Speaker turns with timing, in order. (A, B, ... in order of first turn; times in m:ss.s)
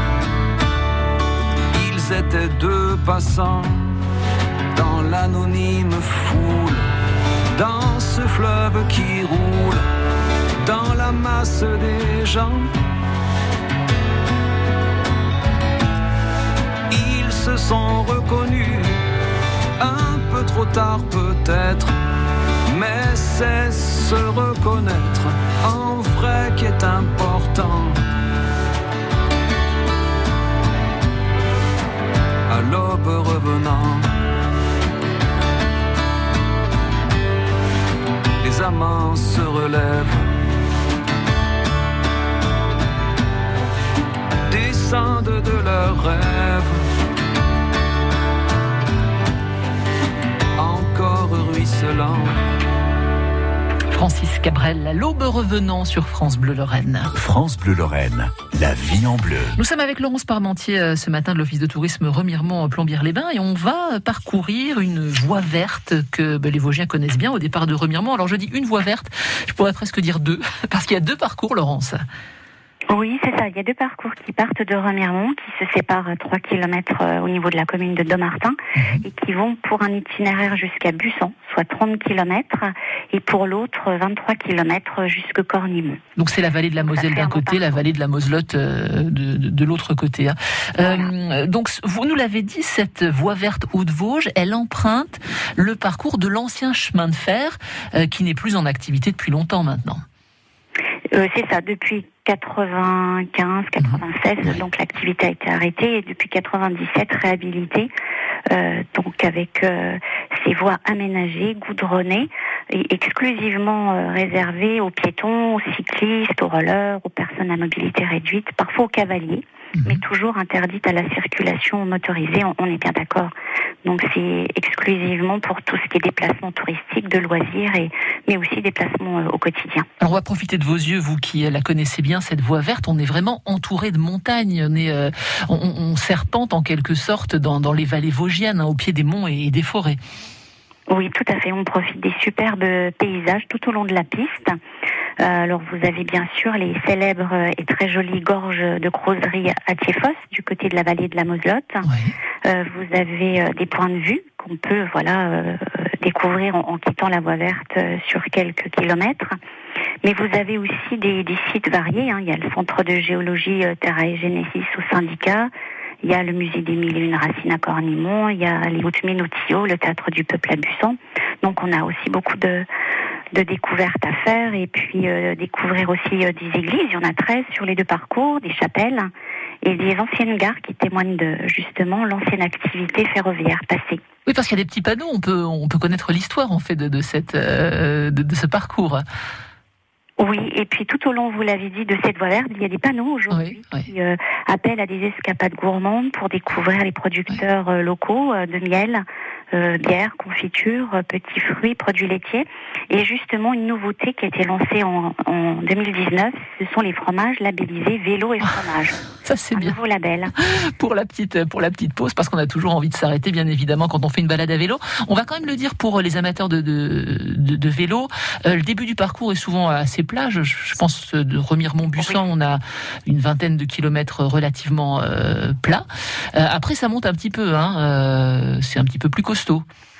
0:01.7-0:04.0 A
0:04.7-0:06.9 A
0:07.5-0:09.9 A
0:10.6-0:12.7 A
0:16.9-0:19.0 A
0:19.8-0:21.9 A
0:22.7-0:28.0 A
0:32.5-0:34.1 A
0:38.4-0:40.4 A
0:44.5-0:46.8 A
0:50.6-0:52.4 A
0:53.9-0:57.1 B
0:57.1-0:59.6 C
0:59.6-1:12.0 B
1:12.9-1:26.0 D
1:18.8-1:19.0 B
1:26.2-1:40.0 B
1:26.8-1:27.7 D
1:30.8-1:31.1 D
1:41.1-1:47.9 D
1:43.8-1:44.6 B
1:48.5-2:03.3 D
1:59.8-2:00.0 B
2:03.8-2:09.9 D
2:10.0-2:20.0 B
2:20.9-2:24.6 D
2:25.2-2:31.8 D
2:31.8-2:32.1 B
2:32.4-2:39.4 D
2:40.0-2:45.5 D
2:46.0-2:52.7 D
2:53.3-2:59.1 D
2:59.6-3:04.0 D
3:04.2-3:09.0 B
3:10.2-3:29.0 D
3:13.3-3:13.9 B
3:29.2-3:29.8 B
3:29.5-3:30.3 D
3:30.4-3:49.6 B